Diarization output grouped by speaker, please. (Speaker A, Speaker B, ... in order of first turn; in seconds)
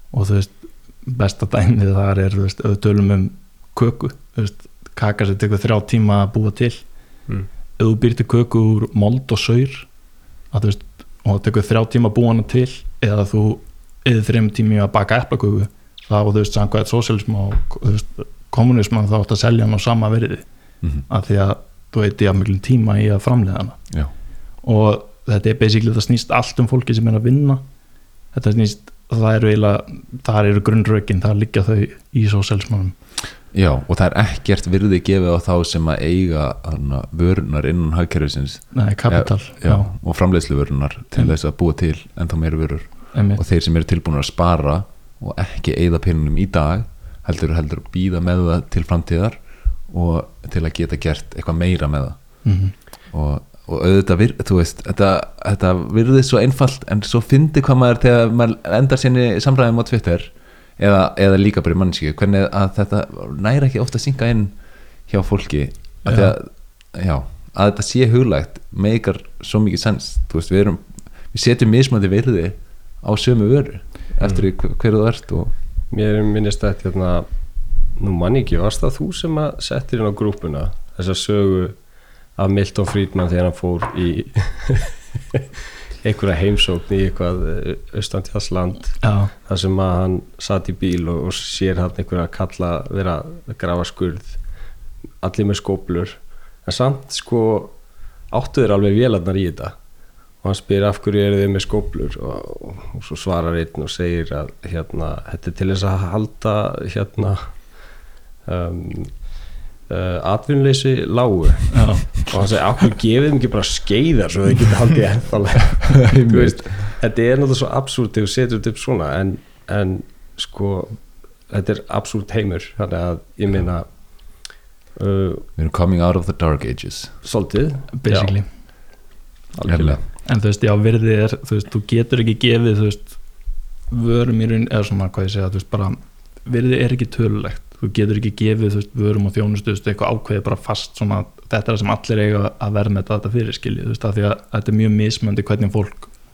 Speaker A: 0.1-6.8, 7.8-9.9, 10.5-20.4, 21.1-23.8, 24.6-27.6, 28.3-32.9, 38.7-39.9, 43.1-43.4, 52.4-52.7, 66.0-66.3, 89.0-89.3, 111.7-112.2, 128.0-128.5, 130.2-133.2, 133.9-146.1
Speaker B: 33.5-52.5, 53.1-64.5, 65.1-75.5, 116.0-116.9, 125.6-127.2, 129.7-130.0
Speaker C: 75.9-77.3, 78.0-81.8, 82.3-85.5, 86.0-94.4, 95.2-97.8, 98.3-99.8, 100.4-107.9, 108.5-125.5, 127.2-128.3, 129.5-130.0